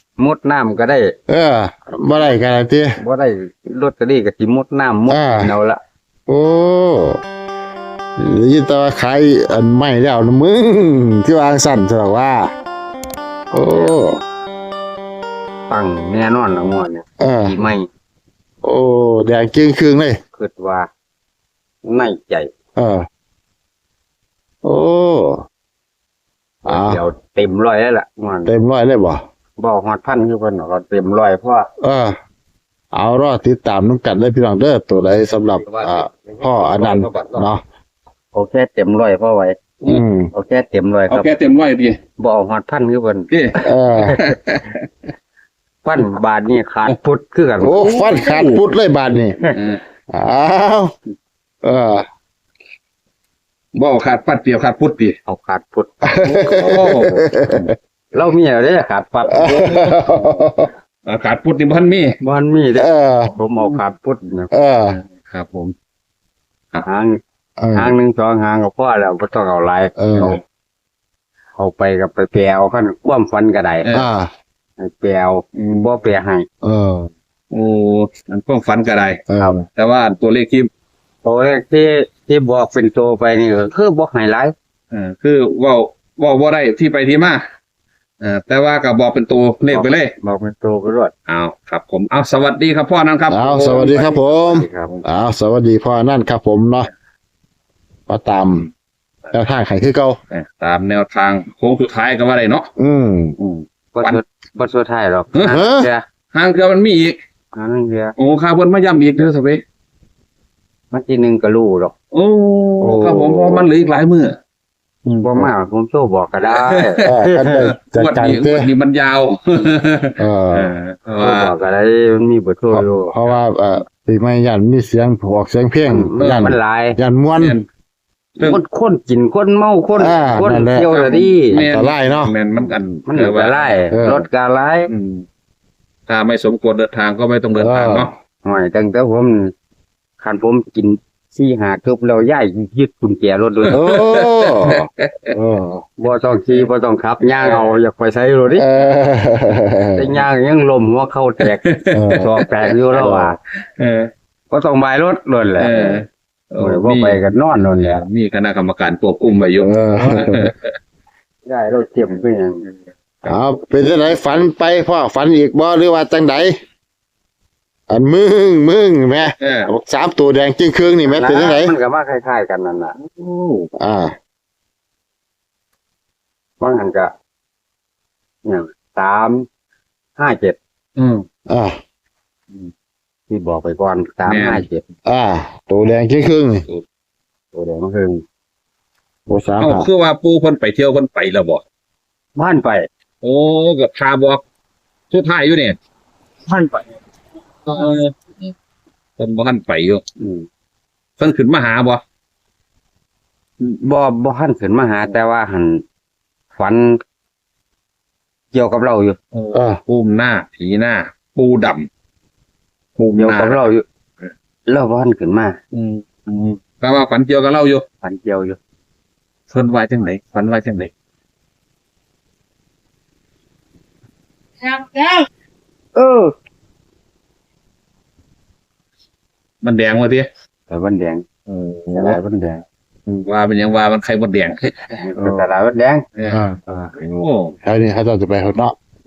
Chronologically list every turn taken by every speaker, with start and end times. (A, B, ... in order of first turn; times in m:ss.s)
0:00.2-0:01.1 A
0:01.3-0:03.0 B
0:01.9-0:02.3 A
0:03.0-0:05.8 A
0:05.1-0:05.5 B
0:06.3-0:07.2 B
0:08.2-0:12.5 B
0:13.5-0:14.2 B
0:15.7-0:17.9 A
0:17.2-0:17.6 B
0:18.6-0:20.2 B
0:20.3-0:20.9 A
0:21.8-0:22.5 A
0:22.8-0:23.0 B
0:24.6-0:25.4 B
0:26.6-0:28.5 A
0:26.6-0:27.0 B
0:28.4-0:29.2 B
0:29.6-0:31.7 A
0:31.8-0:32.2 B
0:32.9-0:37.6 B
0:35.5-0:37.5 A
0:38.3-0:39.8 A
0:39.8-0:40.3 B
0:40.3-0:41.3 A
0:41.1-0:42.0 C
0:42.2-0:44.3 A
0:43.3-0:44.9 C
0:43.6-0:44.2 B
0:45.8-0:48.1 A
0:47.6-0:49.4 B
0:47.8-0:48.6 C
0:49.5-0:49.8 C
0:50.1-0:50.9 B
0:51.6-0:52.0 B
0:53.7-0:55.2 C
0:55.2-0:55.9 A
0:56.0-0:57.7 B
0:56.2-0:57.7 C
0:58.1-0:59.9 A
0:59.3-1:00.7 B
1:01.0-1:02.1 C
1:02.2-1:04.5 A
1:02.8-1:03.3 B
1:04.5-1:05.0 B
1:04.9-1:05.7 C
1:06.8-1:07.2 A
1:07.6-1:07.9 B
1:07.7-1:10.4 A
1:10.0-1:10.4 B
1:11.6-1:13.9 A
1:13.8-1:14.1 C
1:13.9-1:14.3 B
1:14.8-1:16.4 A
1:15.6-1:15.9 C
1:16.6-1:17.1 B
1:17.5-1:19.2 C
1:19.3-1:19.6 B
1:19.7-1:20.7 C
1:21.2-1:24.5 A
1:24.9-1:27.4 C
1:28.2-1:30.1 C
1:29.7-1:31.1 A
1:31.3-1:34.1 C
1:33.3-1:36.9 B
1:33.6-1:34.9 A
1:38.1-1:38.7 B
1:39.3-1:40.2 B
1:40.3-1:42.7 C
1:42.8-1:43.3 B
1:43.4-1:44.2 C
1:44.0-1:46.0 A
1:45.5-1:45.9 B
1:46.3-1:47.2 C
1:47.5-1:48.1 A
1:48.2-1:49.6 C
1:50.9-1:51.9 A
1:52.1-1:54.4 C
1:52.8-1:53.7 A
1:55.0-1:55.5 C
1:55.2-1:57.7 A
1:56.5-2:01.5 C
1:57.0-1:58.7 B
2:00.2-2:00.7 B
2:01.2-2:03.1 A
2:02.7-2:07.6 B
2:05.9-2:07.0 A
2:06.2-2:06.5 C
2:07.4-2:07.7 C
2:08.4-2:11.6 A
2:10.0-2:10.9 B
2:10.9-2:13.8 C
2:11.5-2:12.3 B
2:13.0-2:14.9 A
2:13.9-2:14.2 B
2:14.9-2:15.2 C
2:16.1-2:18.1 C
2:17.6-2:18.1 B
2:18.4-2:19.5 A
2:20.2-2:23.8 A
2:23.6-2:25.3 C
2:23.7-2:25.8 B
2:26.0-2:28.7 A
2:27.4-2:27.7 C
2:28.6-2:30.1 B
2:29.9-2:31.6 A
2:31.4-2:33.0 C
2:31.9-2:32.3 B
2:32.2-2:33.4 A
2:33.0-2:33.3 B
2:33.8-2:34.1 C
2:34.5-2:36.0 A
2:35.6-2:40.7 C
2:36.6-2:38.0 A
2:39.6-2:40.5 B
2:41.4-2:42.7 A
2:43.2-2:46.6 B
2:47.9-2:51.7 B
2:49.4-2:49.7 C
2:51.0-2:52.9 A
2:53.0-2:53.7 C
2:53.8-2:54.1 B
2:56.6-2:57.1 A
2:58.4-2:59.4 A
3:00.2-3:00.6 A
3:01.0-3:01.2 C
3:01.5-3:01.7 B
3:03.3-3:04.8 A
3:04.2-3:04.6 C
3:05.0-3:06.6 B
3:07.5-3:08.2 A
3:09.3-3:09.9 B
3:09.6-3:11.6 C
3:12.4-3:12.8 A
3:13.2-3:14.4 C
3:15.1-3:15.8 C
3:16.5-3:16.8 C
3:17.6-3:18.5 C
3:19.2-3:20.0 C
3:20.2-3:20.4 A
3:21.2-3:22.0 C
3:23.6-3:25.8 A
3:26.5-3:27.0 A
3:28.5-3:29.2 A
3:29.3-3:31.9 C
3:29.5-3:29.8 B
3:33.0-3:33.6 C
3:33.2-3:33.8 A
3:34.7-3:35.6 A
3:35.7-3:37.8 C
3:38.0-3:38.6 A
3:39.5-3:40.9 C
3:44.7-3:45.2 A
3:46.0-3:46.3 A
3:49.6-3:50.3 C
3:50.7-3:51.2 A
3:51.5-3:52.2 C
3:51.9-3:52.6 A
3:53.1-3:54.7 C
3:54.9-3:56.0 A
3:56.2-3:57.6 C
3:56.3-3:56.8 B
3:57.6-3:58.7 B